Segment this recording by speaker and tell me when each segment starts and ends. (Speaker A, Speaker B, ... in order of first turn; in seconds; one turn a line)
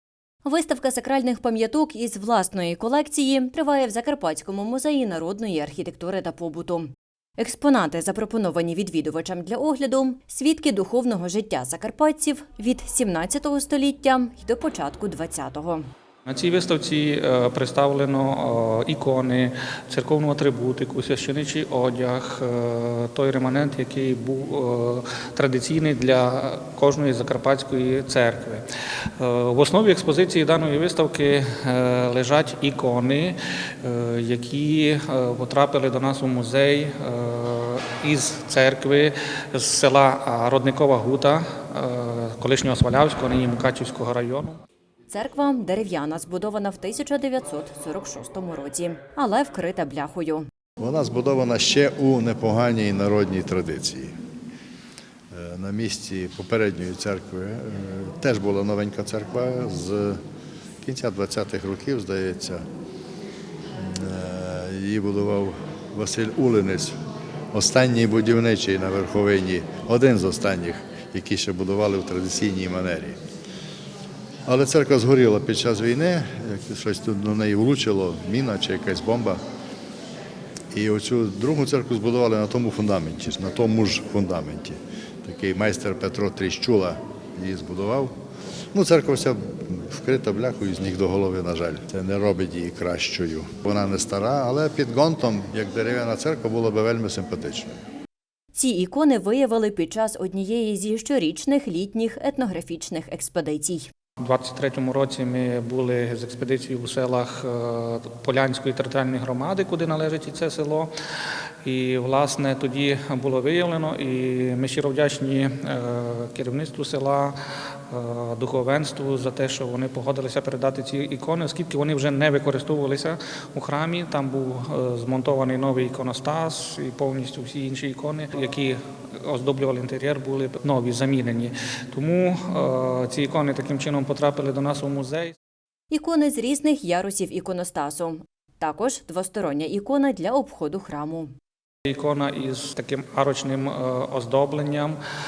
Speaker A: 0.4-15.8
Speaker B: 16.2-28.6
Speaker B: 29.1-44.6
Speaker A: 45.1-50.5
Speaker C: 50.8-54.1
Speaker C: 55.3-60.2
Speaker C: 60.8-62.6
Speaker C: 63.8-66.9
Speaker C: 67.5-73.2
Speaker C: 74.5-79.4
Speaker C: 80.7-88.1
Speaker C: 88.7-97.8
Speaker A: 98.5-103.9
Speaker B: 104.2-110.9
Speaker B: 111.6-117.3
Speaker B: 117.9-135.3
Speaker A: 135.9-141.3
Speaker B: 141.8-145.0